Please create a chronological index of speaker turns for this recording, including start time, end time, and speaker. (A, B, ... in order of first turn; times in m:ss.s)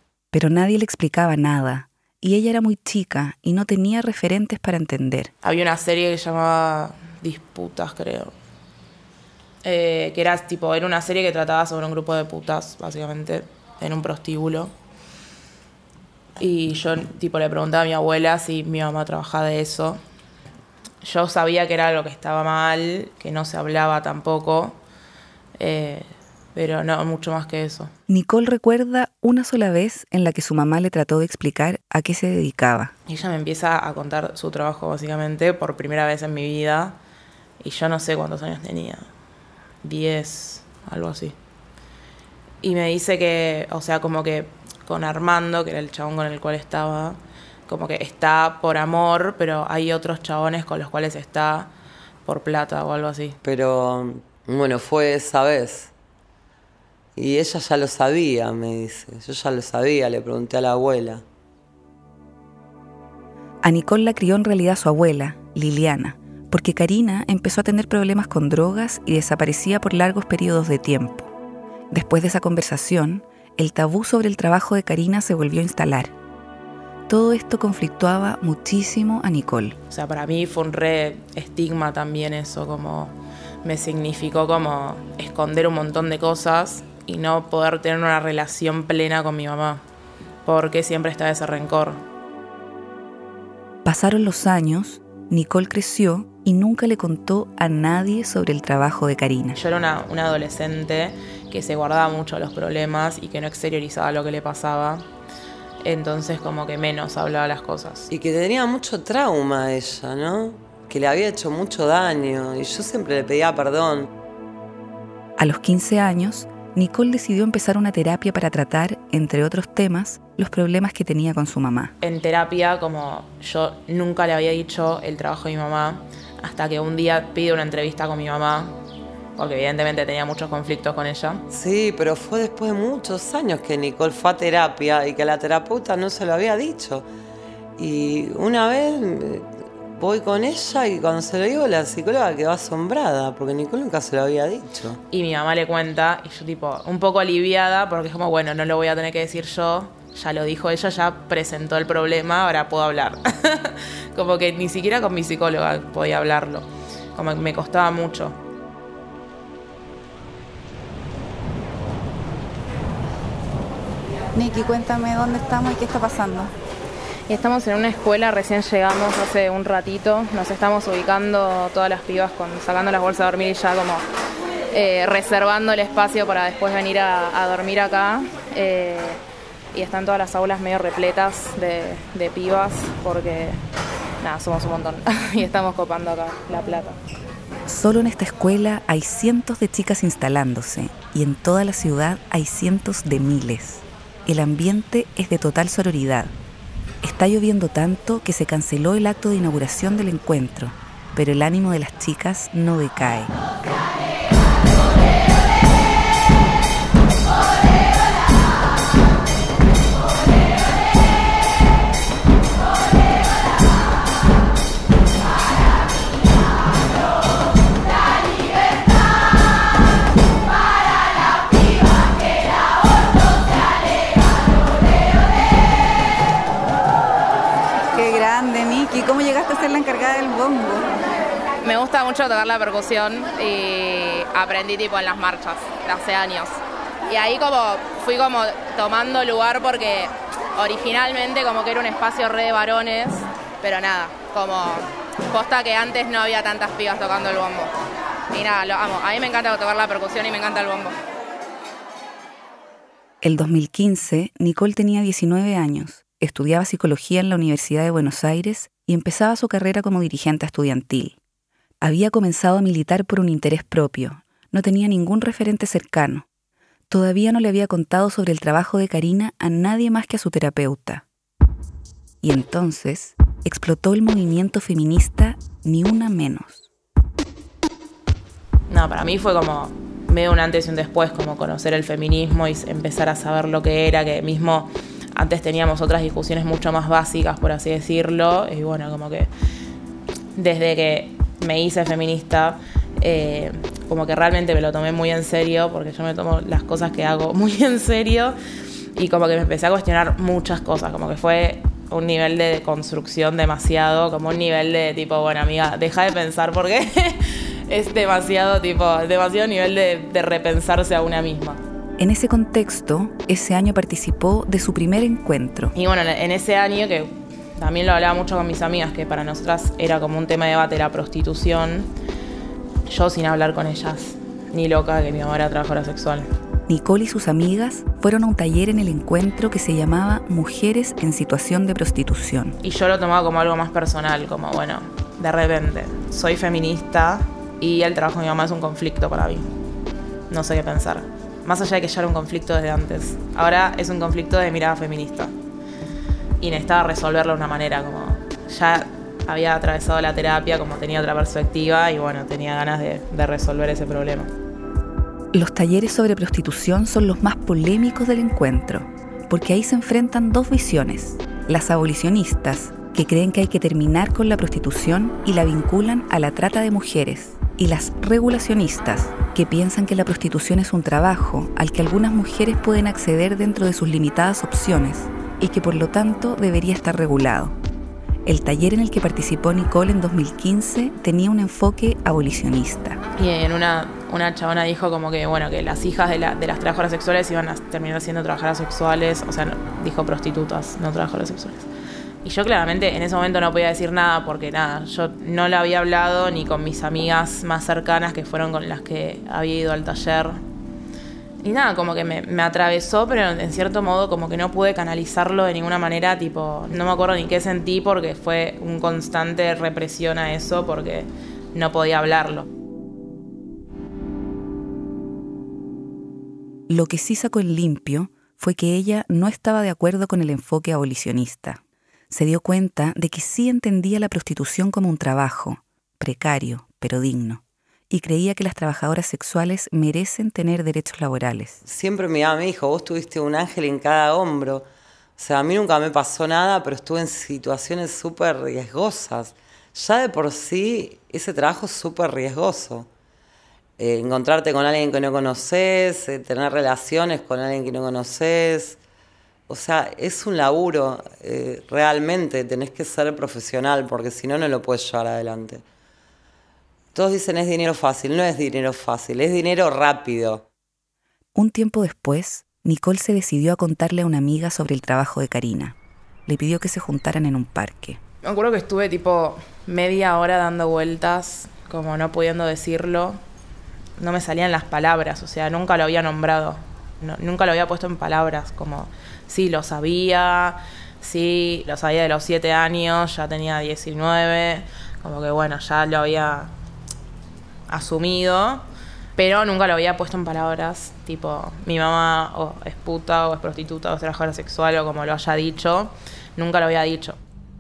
0:00.3-0:05.3 A
0:05.4-0:08.3 B
0:09.6-0:14.7 B
0:16.4-0:20.0 B
0:21.0-0:24.8 B
0:25.6-0:27.9 B
0:28.1-0:32.9 A
0:33.1-0:37.0 B
0:37.6-0:39.1 B
0:39.8-0:41.3 B
0:42.6-0:51.7 B
0:52.2-0:53.4 B
0:53.4-0:55.9 C
0:57.2-1:01.2 C
1:03.6-1:11.3 A
1:11.9-1:16.1 A
1:17.1-1:19.8 A
1:19.9-1:29.8 B
1:30.4-1:32.0 B
1:33.8-1:39.6 A
1:39.5-1:45.0 B
1:45.8-1:48.1 B
1:48.1-1:54.1 C
1:55.4-2:01.9 A
2:02.0-2:08.7 B
2:09.4-2:11.4 B
2:11.5-2:17.1 C
2:17.8-2:25.0 C
2:25.1-2:38.4 B
2:44.3-2:46.5 D
2:47.3-2:54.0 B
2:54.7-2:59.2 B
2:59.7-3:03.6 B
3:04.2-3:07.0 B
3:07.7-3:16.3 A
3:17.0-3:23.3 A
3:47.9-3:50.8 D
3:51.6-4:07.7 B
4:08.3-4:10.9 B
4:13.2-4:21.2 A
4:21.8-4:26.2 A
4:26.9-4:31.0 A
4:32.2-4:36.7 A
4:38.7-4:49.3 B
4:50.3-4:58.4 B
4:58.9-5:11.6 B
5:12.0-5:15.7 A
5:15.8-5:21.9 B
5:22.9-5:26.3 B
5:26.7-5:32.6 A
5:32.6-5:39.5 B
5:40.3-5:45.3 B
5:46.4-5:54.3 B
5:55.3-6:17.6 A
6:18.2-6:23.0 A
6:23.2-6:31.7 B
6:32.2-6:40.4 B
6:41.4-6:52.4 B
6:56.7-7:11.6 A
7:11.6-7:14.7 C
7:15.2-7:22.9 C
7:23.8-7:28.8 C
7:29.5-7:35.6 C
7:36.9-7:40.4 C
7:41.3-7:45.7 A
7:46.2-7:48.0 A
7:48.2-7:53.2 B
7:54.0-8:06.5 B
8:07.7-8:08.6 B
8:09.2-8:17.2 B